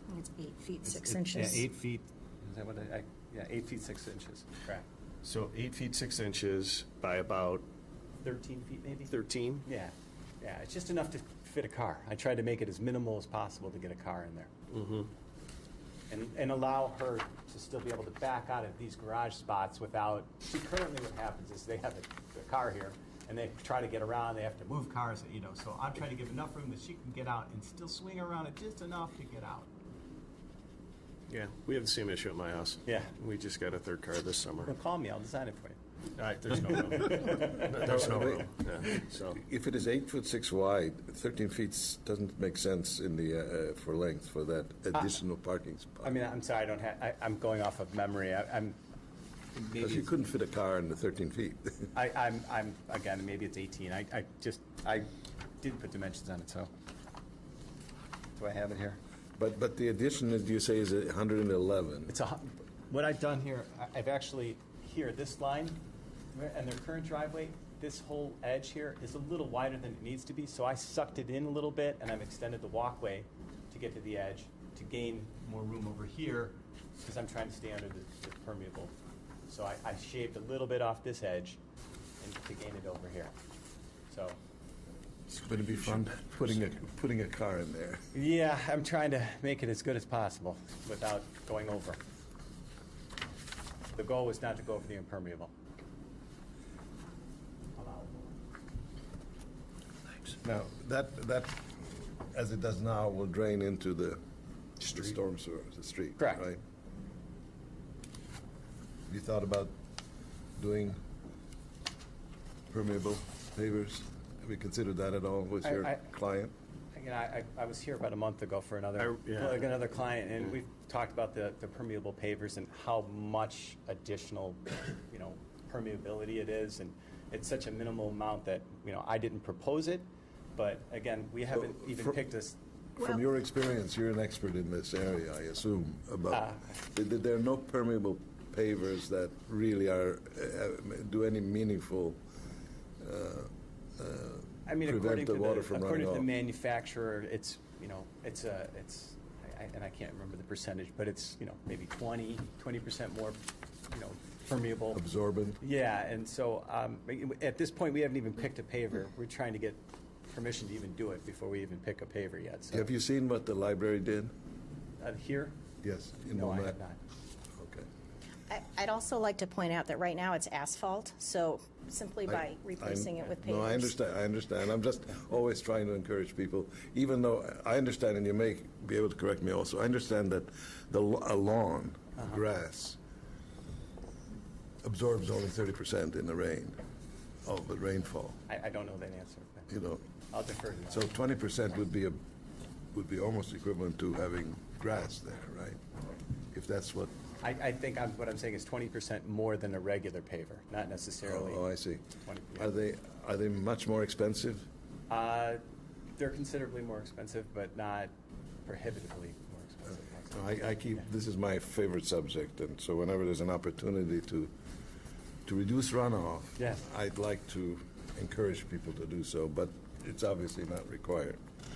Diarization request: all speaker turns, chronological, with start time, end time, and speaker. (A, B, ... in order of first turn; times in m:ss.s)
0:00.1-0:01.6 A
0:00.8-0:04.8 B
0:05.2-0:07.6 C
0:08.2-0:14.5 B
0:09.1-0:09.6 C
0:14.7-0:15.1 C
0:16.1-0:29.7 B
0:31.3-0:34.7 C
0:32.8-0:33.1 B
0:34.6-0:35.8 B
0:36.2-0:39.4 C
0:36.5-0:39.0 B
0:37.8-0:38.5 D
0:39.2-0:46.2 D
0:46.0-0:48.8 B
0:49.5-0:50.1 B
0:49.8-0:51.9 D
0:51.9-0:56.7 B
0:58.4-0:59.0 B
0:59.4-1:02.1 D
1:02.1-1:05.8 B
1:06.3-1:18.9 B
1:19.5-1:21.6 B
1:22.2-1:23.3 B
1:24.1-1:24.4 B
1:25.3-1:28.0 D
1:28.1-1:32.0 B
1:33.9-1:35.5 B
1:37.8-1:38.3 B
1:40.4-1:44.2 D
1:44.8-1:46.6 D
1:46.2-1:46.4 B
1:49.1-1:49.7 D
1:50.6-1:51.0 D
1:52.7-1:56.5 D
1:55.6-1:56.0 B
1:56.9-2:12.6 B
1:59.0-1:59.6 C
2:11.6-2:12.0 D
2:13.0-2:22.2 D
2:16.3-2:16.8 B
2:23.0-2:26.3 D
2:24.6-2:35.0 B
2:34.9-2:35.6 D
2:35.6-2:42.9 B
2:42.7-2:44.3 D
2:45.0-2:45.6 B
2:45.8-2:46.8 D
2:46.3-2:47.0 B
2:47.6-2:47.9 D
2:48.5-2:53.9 A
2:52.3-3:03.0 D
3:04.8-3:06.8 D
3:07.4-3:08.4 D
3:08.5-3:09.7 B
3:09.7-3:10.0 D
3:10.3-3:11.1 B
3:10.9-3:12.2 D
3:12.9-3:15.8 D
3:16.5-3:17.1 D
3:17.4-3:21.6 B
3:21.2-3:24.7 D
3:22.2-3:22.7 B
3:25.1-3:25.6 B
3:26.2-3:28.1 B
3:28.6-3:30.4 B
3:30.3-3:34.5 D
3:35.4-3:41.4 D
3:36.6-3:36.8 B